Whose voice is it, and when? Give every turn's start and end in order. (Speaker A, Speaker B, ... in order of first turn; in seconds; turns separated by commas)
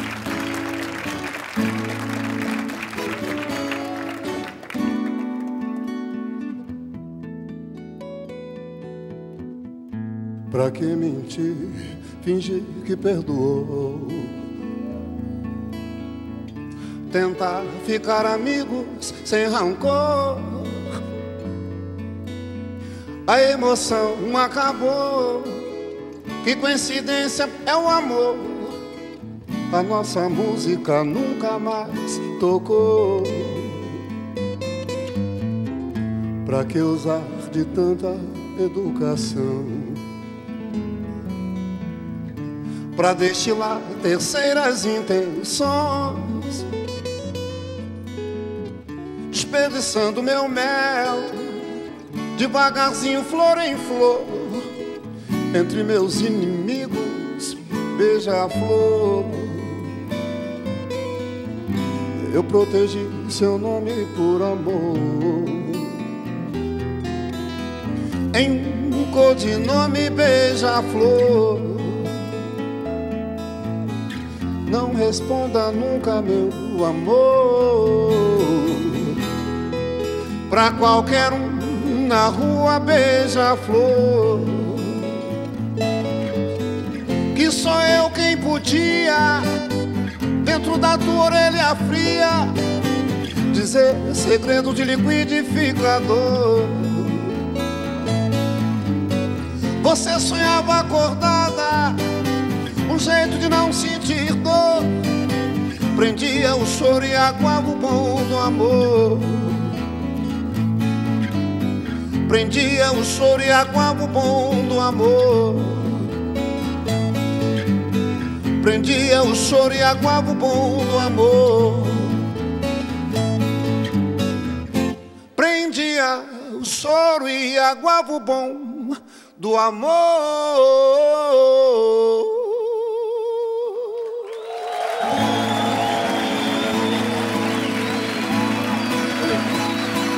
Speaker A: 10.5-14.4, Speaker A: 17.1-21.0, Speaker A: 23.2-25.7, Speaker A: 26.4-28.8, Speaker A: 29.7-34.0, Speaker A: 36.4-40.0, Speaker A: 42.9-46.7, Speaker A: 49.3-51.7, Speaker A: 52.3-54.7, Speaker A: 55.5-60.0, Speaker A: 62.1-66.0, Speaker A: 68.3-72.3, Speaker A: 74.6-79.2, Speaker A: 80.5-85.2, Speaker A: 87.3-89.5, Speaker A: 90.4-92.5, Speaker A: 93.5-97.4, Speaker A: 99.8-102.0, Speaker A: 102.8-104.9, Speaker A: 105.9-109.8, Speaker A: 112.2-116.1, Speaker A: 118.6-122.3, Speaker A: 125.3-134.2